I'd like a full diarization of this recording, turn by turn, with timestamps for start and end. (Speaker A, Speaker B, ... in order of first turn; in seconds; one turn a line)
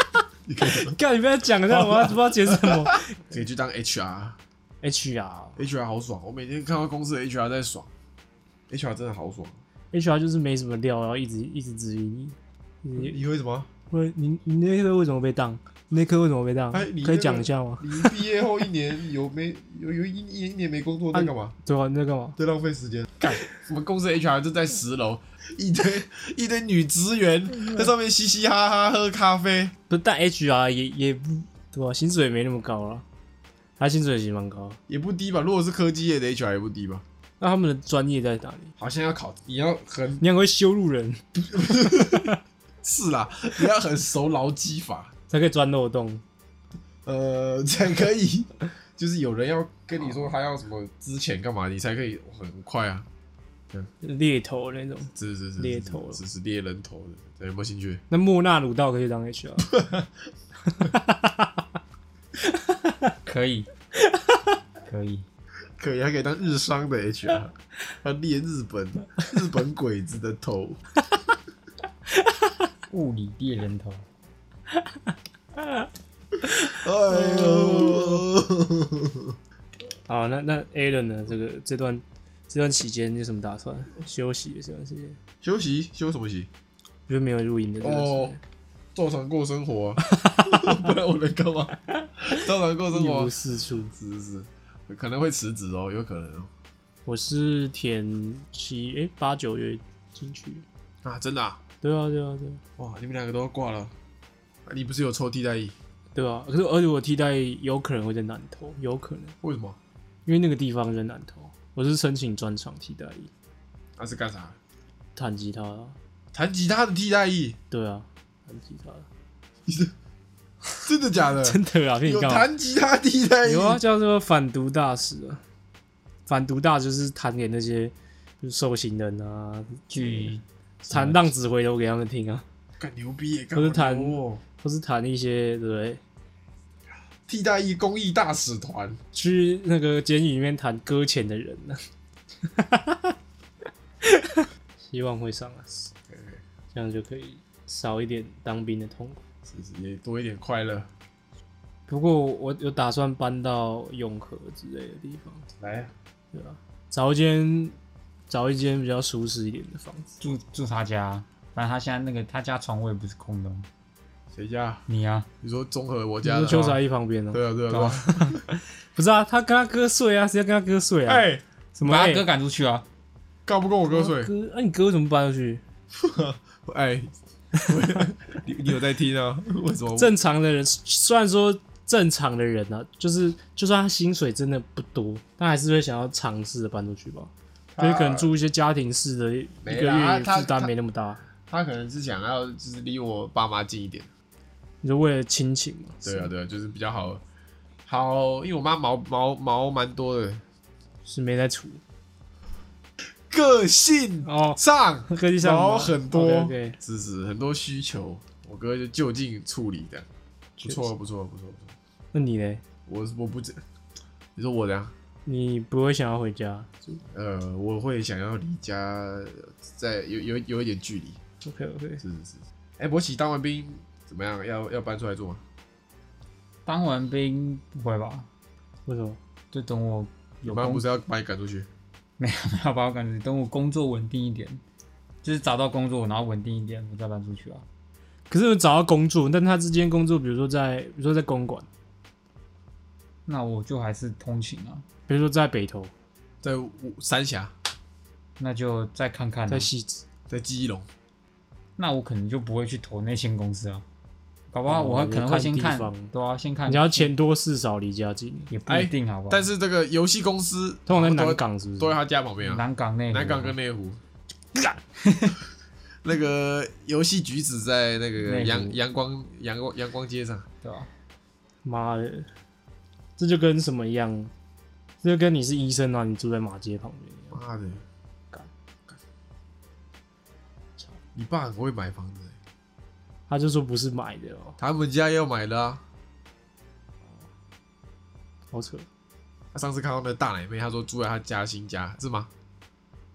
Speaker A: 0.5-1.0
Speaker B: 0.6-3.3
Speaker A: 1.7-4.4
Speaker B: 4.8-5.6
Speaker A: 5.6-7.9
Speaker A: 8.7-9.6
Speaker B: 9.9-13.2
Speaker A: 13.0-13.7
Speaker B: 13.9-18.2
Speaker A: 16.7-21.6
Speaker B: 21.1-22.4
Speaker A: 22.4-29.8
Speaker B: 29.9-33.0
Speaker B: 33.8-34.8
Speaker A: 34.9-37.0
Speaker B: 37.4-38.7
Speaker A: 38.8-40.2
Speaker B: 40.2-42.4
Speaker A: 41.4-45.1
Speaker B: 45.3-46.2
Speaker A: 47.0-53.1
Speaker B: 54.0-56.2
Speaker A: 55.2-58.0
Speaker B: 58.1-59.8
Speaker A: 59.7-60.1
Speaker B: 60.7-61.5
Speaker B: 62.5-63.1
Speaker C: 63.2-63.7
Speaker B: 64.1-64.5
Speaker C: 64.9-65.2
Speaker A: 65.8-70.8
Speaker C: 72.9-74.0
Speaker A: 76.4-79.3
Speaker B: 76.5-78.2
Speaker B: 80.1-85.2
Speaker A: 85.4-86.5
Speaker B: 87.1-88.4
Speaker A: 87.8-88.4
Speaker A: 88.9-93.3
Speaker B: 90.1-90.8
Speaker B: 92.9-93.9
Speaker A: 93.9-96.5
Speaker B: 97.1-100.7
Speaker A: 101.0-101.6
Speaker B: 101.8-102.6
Speaker A: 102.8-103.9
Speaker A: 104.7-105.8
Speaker B: 106.2-109.3
Speaker A: 109.4-109.8
Speaker B: 110.3-113.3
Speaker A: 114.0-114.6
Speaker B: 115.2-116.0
Speaker A: 116.3-117.6
Speaker B: 117.7-119.1
Speaker A: 119.7-119.9
Speaker A: 120.8-123.8
Speaker B: 121.4-122.5
Speaker B: 123.4-125.4
Speaker B: 126.3-130.3
Speaker C: 129.9-131.2
Speaker B: 130.9-132.4
Speaker A: 132.8-134.4
Speaker B: 133.6-136.0
Speaker A: 137.3-139.0
Speaker B: 139.1-141.8
Speaker B: 142.5-143.1
Speaker B: 144.0-145.9
Speaker A: 146.1-146.4
Speaker B: 146.7-149.2
Speaker A: 149.5-150.9
Speaker B: 151.9-155.5
Speaker A: 155.6-155.9
Speaker B: 156.3-157.8
Speaker B: 158.3-160.1
Speaker C: 160.2-163.7
Speaker A: 164.3-164.8
Speaker C: 164.9-165.3
Speaker A: 165.4-166.8
Speaker B: 166.2-167.4
Speaker C: 166.5-166.8
Speaker A: 167.3-168.4
Speaker C: 167.7-168.3
Speaker B: 168.1-172.2
Speaker A: 171.1-171.4
Speaker C: 171.8-172.8
Speaker A: 173.5-174.3
Speaker B: 173.9-175.6
Speaker A: 175.9-180.1
Speaker B: 180.0-191.2
Speaker A: 187.7-188.3
Speaker A: 189.6-190.7
Speaker A: 191.5-194.1
Speaker B: 194.8-196.3
Speaker A: 196.0-197.2
Speaker A: 197.9-200.4
Speaker B: 201.1-201.8
Speaker A: 203.0-210.1
Speaker B: 204.3-204.6
Speaker B: 205.1-206.8
Speaker A: 210.6-211.7
Speaker B: 212.1-212.6
Speaker A: 212.9-213.6
Speaker A: 214.4-214.9
Speaker B: 215.3-217.0
Speaker A: 217.1-221.2
Speaker B: 221.4-222.0
Speaker A: 222.0-225.4
Speaker C: 226.7-228.3
Speaker B: 228.9-229.2
Speaker C: 229.5-230.8
Speaker A: 230.5-231.7
Speaker C: 232.2-234.6
Speaker C: 235.2-237.7
Speaker B: 238.3-241.7
Speaker C: 243.3-244.8
Speaker B: 245.1-245.9
Speaker A: 246.4-247.5
Speaker C: 248.4-249.7
Speaker B: 249.5-250.0
Speaker A: 250.3-250.9
Speaker C: 251.8-253.8
Speaker C: 254.5-257.1
Speaker B: 254.7-256.1
Speaker B: 256.7-258.5
Speaker C: 258.5-259.5
Speaker A: 258.7-264.0
Speaker B: 260.9-262.0
Speaker C: 262.4-263.6
Speaker C: 265.0-265.4
Speaker A: 266.0-270.5
Speaker C: 268.2-268.8
Speaker C: 270.6-270.9
Speaker B: 271.6-272.3
Speaker B: 273.2-274.3
Speaker B: 275.0-277.4
Speaker A: 277.3-277.8
Speaker A: 281.1-282.4
Speaker B: 283.3-284.6
Speaker A: 284.6-285.8
Speaker B: 288.5-288.9
Speaker A: 289.5-292.3